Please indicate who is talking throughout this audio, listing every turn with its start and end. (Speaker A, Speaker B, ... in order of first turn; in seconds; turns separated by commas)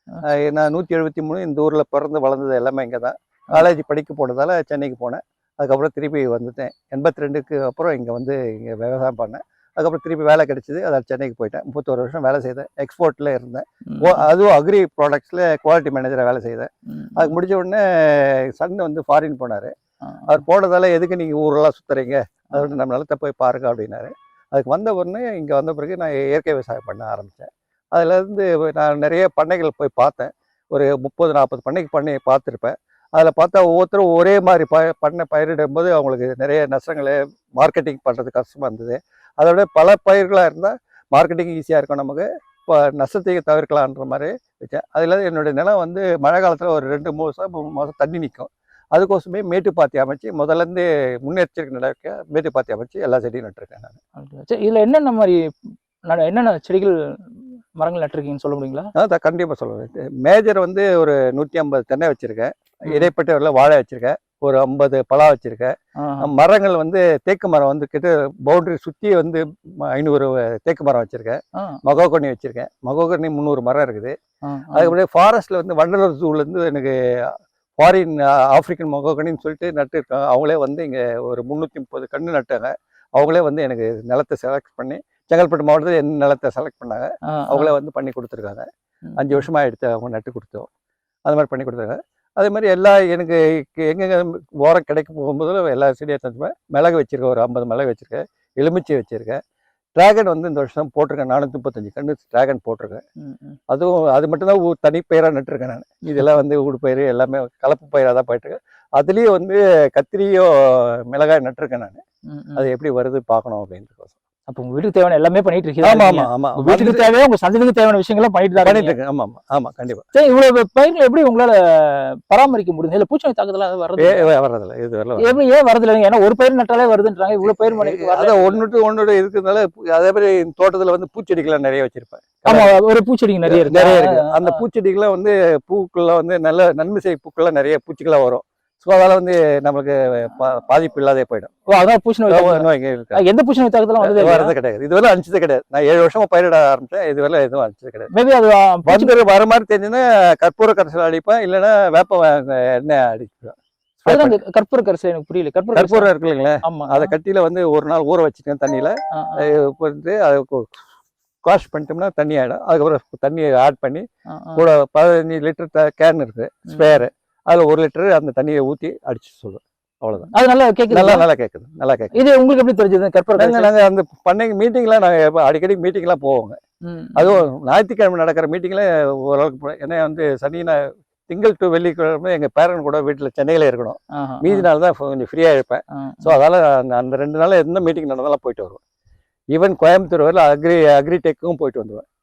Speaker A: 0.2-19.7, Speaker B: 13.9-14.2, Speaker B: 16.9-17.4, Speaker B: 20.0-20.4, Speaker A: 20.3-54.0, Speaker B: 54.2-55.4, Speaker B: 56.1-58.9, Speaker A: 59.0-74.2, Speaker B: 66.0-66.3, Speaker B: 74.4-74.9, Speaker A: 74.7-88.7, Speaker B: 87.3-87.7, Speaker B: 89.1-89.5, Speaker A: 89.2-90.7, Speaker A: 91.2-99.4, Speaker A: 100.0-103.0, Speaker B: 103.2-103.6, Speaker A: 103.7-112.0, Speaker B: 112.3-112.7, Speaker A: 112.6-114.2, Speaker B: 114.5-119.0, Speaker A: 115.8-117.1, Speaker A: 118.6-120.0, Speaker B: 120.1-124.3, Speaker A: 124.0-125.4, Speaker B: 125.2-128.6, Speaker A: 127.4-132.8, Speaker B: 132.4-134.6, Speaker A: 133.4-141.5, Speaker B: 141.7-144.5, Speaker A: 142.3-143.2, Speaker A: 144.0-148.1, Speaker B: 148.1-149.1, Speaker A: 148.8-154.4, Speaker B: 154.1-156.1, Speaker A: 155.7-160.8, Speaker B: 156.6-157.1, Speaker B: 159.1-159.4, Speaker A: 161.4-164.0, Speaker B: 164.3-164.6, Speaker A: 164.6-170.3, Speaker B: 166.7-167.0, Speaker B: 170.3-171.2, Speaker A: 170.9-172.1, Speaker B: 172.1-173.7, Speaker A: 173.3-176.6, Speaker B: 176.8-177.4, Speaker A: 177.2-188.8, Speaker B: 184.2-184.7, Speaker B: 185.9-186.3, Speaker A: 189.5-192.0